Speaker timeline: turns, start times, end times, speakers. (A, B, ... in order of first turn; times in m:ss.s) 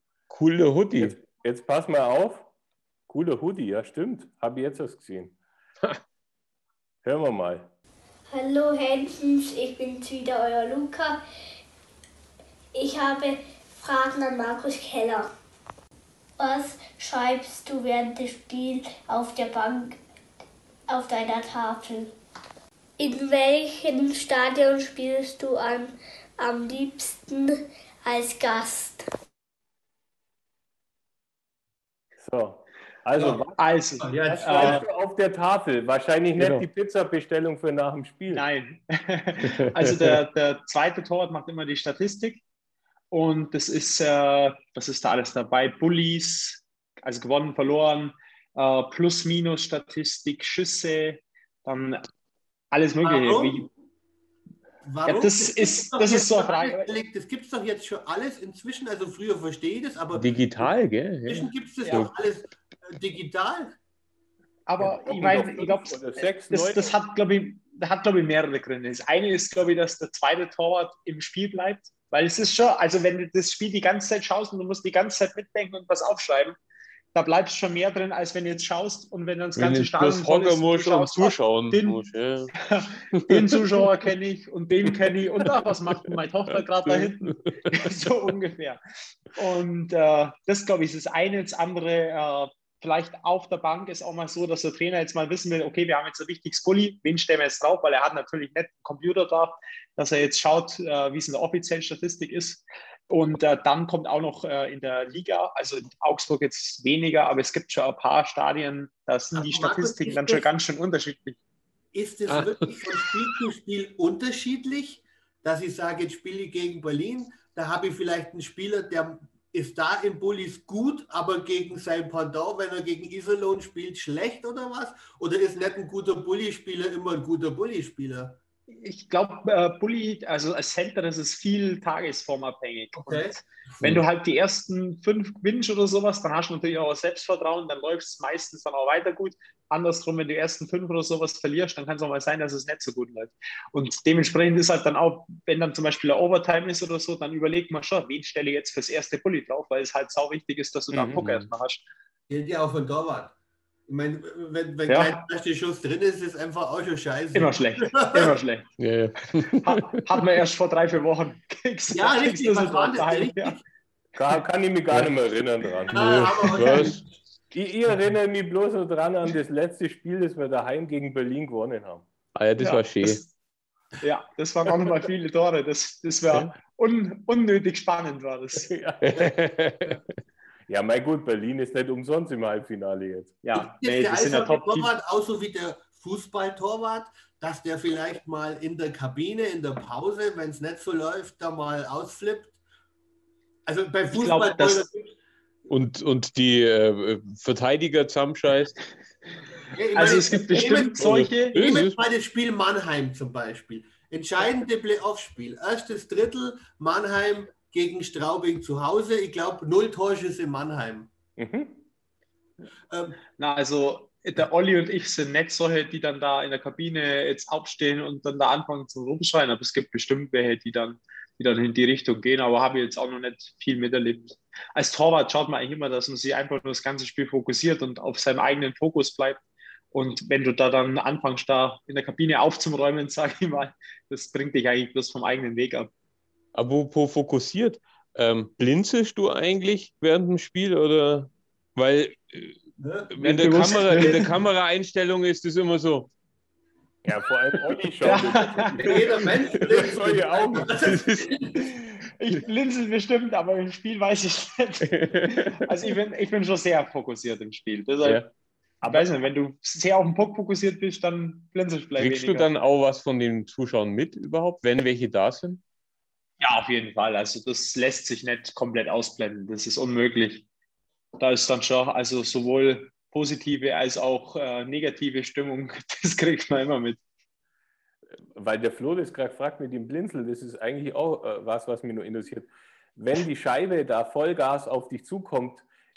0:00.3-0:01.1 A
0:01.0-0:02.5 B
0:03.1-0:05.4 B
0:07.0-0:07.7 B
0:08.3-0:11.2 C
0:12.8-0:15.3 C
0:16.4-0:20.0 C
0:20.9-0:22.1 C
0:23.0-0:29.0 C
0:32.2-0:33.6 B
0:33.2-0:33.4 D
0:33.6-0:34.8 E
0:34.0-0:34.8 D
0:34.2-0:38.4 B
0:36.4-0:36.6 A
0:38.3-0:42.4 E
0:39.4-0:40.2 A
0:43.1-0:52.0 E
0:52.7-0:53.7 E
0:53.0-0:53.7 D
0:54.8-1:00.7 D
0:55.1-0:56.9 E
1:00.1-1:02.1 A
1:01.2-1:03.8 D
1:01.8-1:02.1 E
1:04.7-1:16.6 E
1:04.8-1:07.0 B
1:17.1-1:22.0 E
1:19.6-1:22.5 A
1:22.6-1:28.8 E
1:23.1-1:23.8 A
1:26.5-1:28.0 A
1:29.3-1:51.4 E
1:49.4-1:50.5 D
1:51.9-2:08.4 D
2:08.7-2:31.8 E
2:13.0-2:13.4 D
2:30.9-2:31.2 B
2:31.0-2:31.5 A
2:32.3-2:33.3 D
2:33.9-2:38.3 D
2:34.9-2:35.2 E
2:37.3-2:38.8 E
2:38.8-2:40.1 A
2:39.6-2:43.6 E
2:41.9-2:43.6 D
2:44.2-2:46.2 B
2:45.9-2:47.1 D
2:45.9-2:47.0 A
2:47.5-2:52.0 B
2:52.4-2:53.2 A
2:52.6-2:53.3 E
2:54.0-2:58.7 E
2:58.7-2:59.3 B
2:59.0-3:00.0 A
3:00.7-3:03.3 B
3:03.4-3:04.9 E
3:03.5-3:12.5 D
3:13.7-3:15.2 D
3:14.1-3:14.9 E
3:15.7-3:18.8 A
3:19.7-3:31.1 D
3:20.0-3:21.6 E
3:21.0-3:22.0 A
3:31.4-3:31.8 B
3:32.9-3:33.2 D
3:33.4-3:55.9 E
3:56.6-4:06.1 A
4:02.8-4:03.1 D
4:03.2-4:04.3 E
4:03.9-4:04.3 D
4:07.0-4:10.8 B
4:08.0-4:09.2 E
4:08.1-4:11.6 D
4:10.8-4:11.4 A
4:11.7-4:18.2 E
4:14.8-4:15.7 A
4:18.0-4:18.3 A
4:18.8-4:22.5 E
4:22.0-4:25.6 A
4:26.4-4:30.5 E
4:31.2-4:37.0 E
4:38.4-4:45.7 B